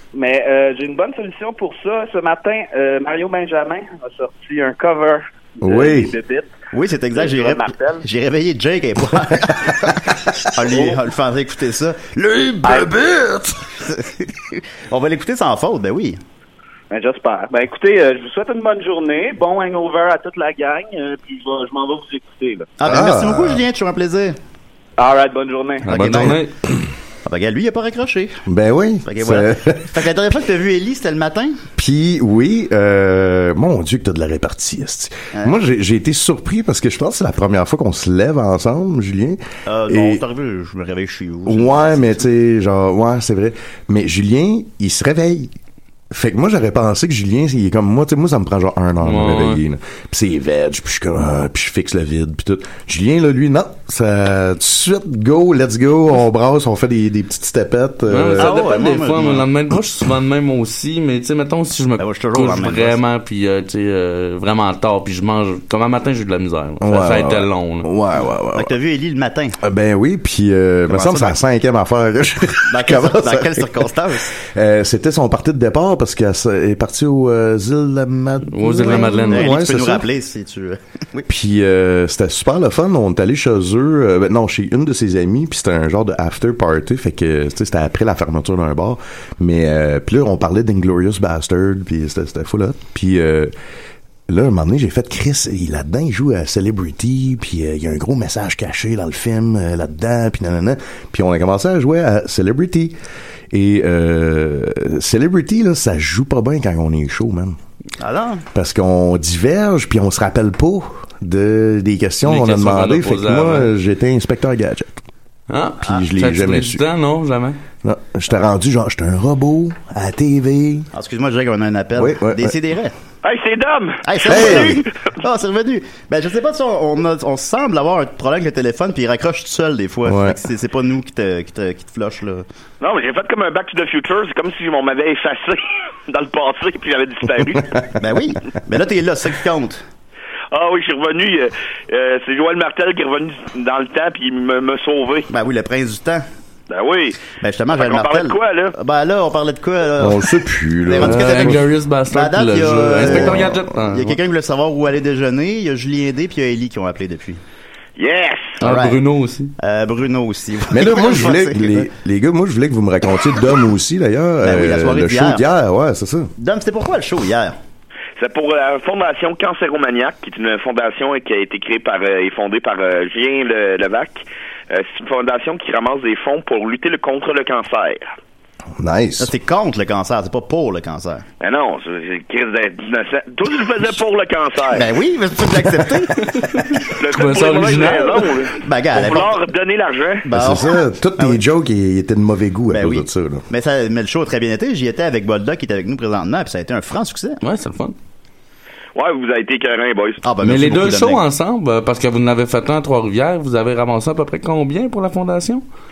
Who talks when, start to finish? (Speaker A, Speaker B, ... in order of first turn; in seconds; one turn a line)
Speaker A: 0.1-6.5
Speaker B: 5.6-6.1
Speaker C: 6.7-13.0
Speaker A: 7.2-8.1
Speaker A: 12.7-13.0
Speaker B: 12.7-13.2
Speaker C: 13.8-16.2
Speaker A: 16.9-22.7
Speaker C: 22.8-24.4
Speaker B: 22.8-23.6
Speaker A: 25.0-25.9
Speaker D: 25.9-26.5
Speaker C: 25.9-26.4
Speaker B: 26.1-26.4
Speaker C: 27.2-28.4
Speaker B: 28.5-30.0
Speaker C: 29.1-31.6
Speaker B: 31.8-40.2
Speaker C: 39.7-42.3
Speaker B: 41.5-45.5
Speaker B: 46.1-58.6
Speaker D: 49.0-49.6
Speaker D: 58.1-67.9
Speaker C: 58.4-59.5
Speaker C: 62.0-63.0
Speaker B: 66.8-68.7
Speaker C: 68.5-69.6
Speaker B: 69.6-80.1
Speaker C: 70.9-71.4
Speaker C: 72.7-74.3
Speaker D: 78.5-79.6
Speaker C: 78.8-81.3
Speaker B: 81.3-93.5
Speaker B: 94.3-103.0
Speaker B: 103.5-107.6
Speaker C: 108.0-108.5
Speaker B: 108.5-115.0
Speaker D: 112.2-113.7
Speaker D: 115.5-117.6
Speaker B: 115.8-116.8
Speaker B: 117.8-120.9
Speaker C: 120.9-122.9
Speaker B: 122.0-122.6
Speaker E: 123.2-125.1
Speaker C: 124.0-132.4
Speaker B: 124.2-124.8
Speaker B: 130.1-130.4
Speaker E: 132.8-137.8
Speaker C: 138.0-139.8
Speaker E: 140.5-145.3
Speaker C: 145.3-146.2
Speaker E: 146.7-148.7
Speaker C: 147.4-150.2
Speaker B: 150.0-151.6
Speaker C: 150.8-157.4
Speaker D: 151.0-154.2
Speaker B: 152.9-153.6
Speaker E: 158.0-158.6
Speaker C: 158.6-159.0
Speaker D: 158.6-159.5
Speaker C: 159.6-161.9
Speaker B: 160.7-166.3
Speaker C: 164.4-165.4
Speaker C: 166.4-167.6
Speaker E: 168.2-178.1
Speaker B: 178.8-179.3
Speaker C: 179.2-181.2
Speaker E: 181.4-184.9
Speaker C: 184.7-186.3
Speaker D: 186.3-188.3
Speaker E: 186.9-190.3
Speaker C: 188.6-189.4
Speaker C: 190.2-191.4
Speaker B: 190.3-193.4
Speaker C: 192.7-197.4
Speaker D: 197.4-197.9
Speaker E: 198.9-200.2
Speaker C: 200.2-201.2
Speaker D: 200.4-205.6